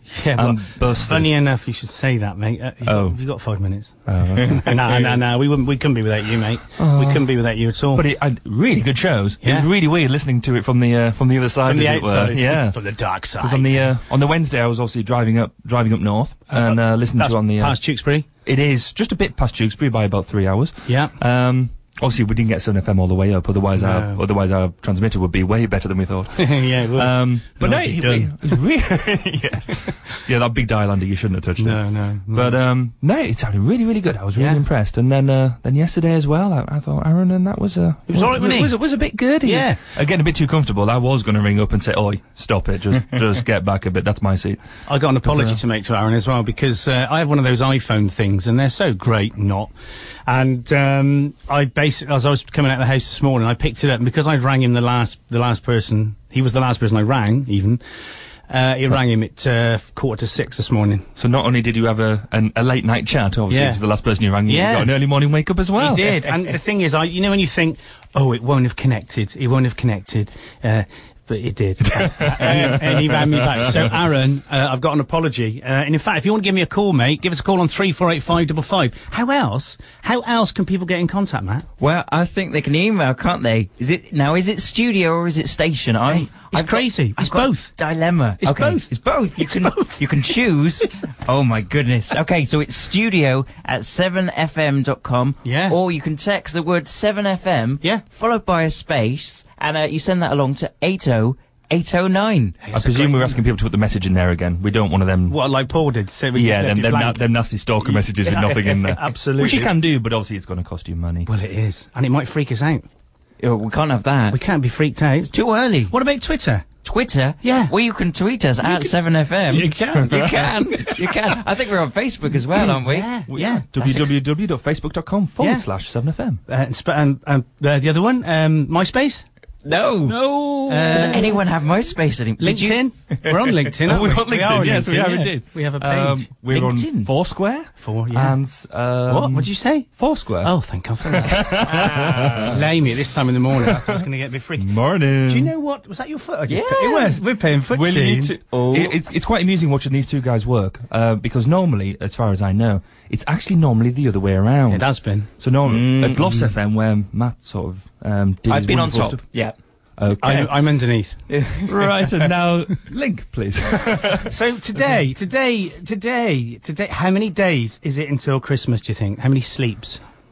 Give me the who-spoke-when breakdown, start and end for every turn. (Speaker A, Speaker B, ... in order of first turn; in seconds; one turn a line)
Speaker A: 0.1-8.0
Speaker B: 0.4-1.3
Speaker B: 2.9-3.2
Speaker B: 4.1-5.2
Speaker B: 6.8-7.3
Speaker B: 8.0-12.8
Speaker A: 9.4-9.7
Speaker A: 11.6-13.9
Speaker B: 13.4-17.8
Speaker A: 16.5-18.3
Speaker B: 18.5-31.8
Speaker A: 20.9-21.1
Speaker A: 23.8-24.2
Speaker A: 26.4-28.6
Speaker A: 31.6-32.6
Speaker B: 32.3-44.6
Speaker A: 34.4-34.6
Speaker A: 38.1-38.8
Speaker A: 39.4-39.8
Speaker A: 44.9-49.7
Speaker B: 45.2-45.6
Speaker A: 50.3-57.8
Speaker A: 58.5-61.1
Speaker B: 61.2-66.3
Speaker A: 63.5-63.8
Speaker A: 64.5-64.9
Speaker A: 65.8-81.7
Speaker B: 71.9-73.9
Speaker C: 81.8-102.6
Speaker A: 86.1-87.7
Speaker A: 88.4-89.9
Speaker A: 95.4-95.8
Speaker A: 102.6-103.4
Speaker B: 102.7-105.4
Speaker A: 105.3-107.2
Speaker B: 106.4-111.3
Speaker A: 107.8-109.7
Speaker A: 111.3-112.9
Speaker C: 113.4-114.4
Speaker A: 114.3-115.3
Speaker C: 115.2-115.9
Speaker A: 115.9-116.7
Speaker C: 116.8-123.1
Speaker A: 117.4-117.7
Speaker A: 119.5-120.5
Speaker A: 122.5-123.7
Speaker B: 123.3-126.4
Speaker C: 123.8-124.1
Speaker A: 125.4-125.7
Speaker A: 126.5-129.2
Speaker C: 129.6-130.2
Speaker B: 130.1-131.3
Speaker A: 130.7-131.4
Speaker C: 130.9-133.5
Speaker A: 132.4-136.3
Speaker B: 133.9-140.5
Speaker C: 136.5-137.1
Speaker A: 137.8-138.4
Speaker A: 139.1-148.3
Speaker B: 141.1-142.6
Speaker C: 141.7-142.3
Speaker B: 144.6-145.5
Speaker C: 146.5-147.2
Speaker B: 147.7-154.9
Speaker C: 148.5-149.0
Speaker A: 154.7-155.3
Speaker B: 155.4-159.3
Speaker C: 155.7-156.3
Speaker C: 158.5-159.6
Speaker B: 160.0-160.5
Speaker A: 160.2-161.2
Speaker C: 161.3-162.1
Speaker B: 161.7-165.0
Speaker A: 164.3-170.0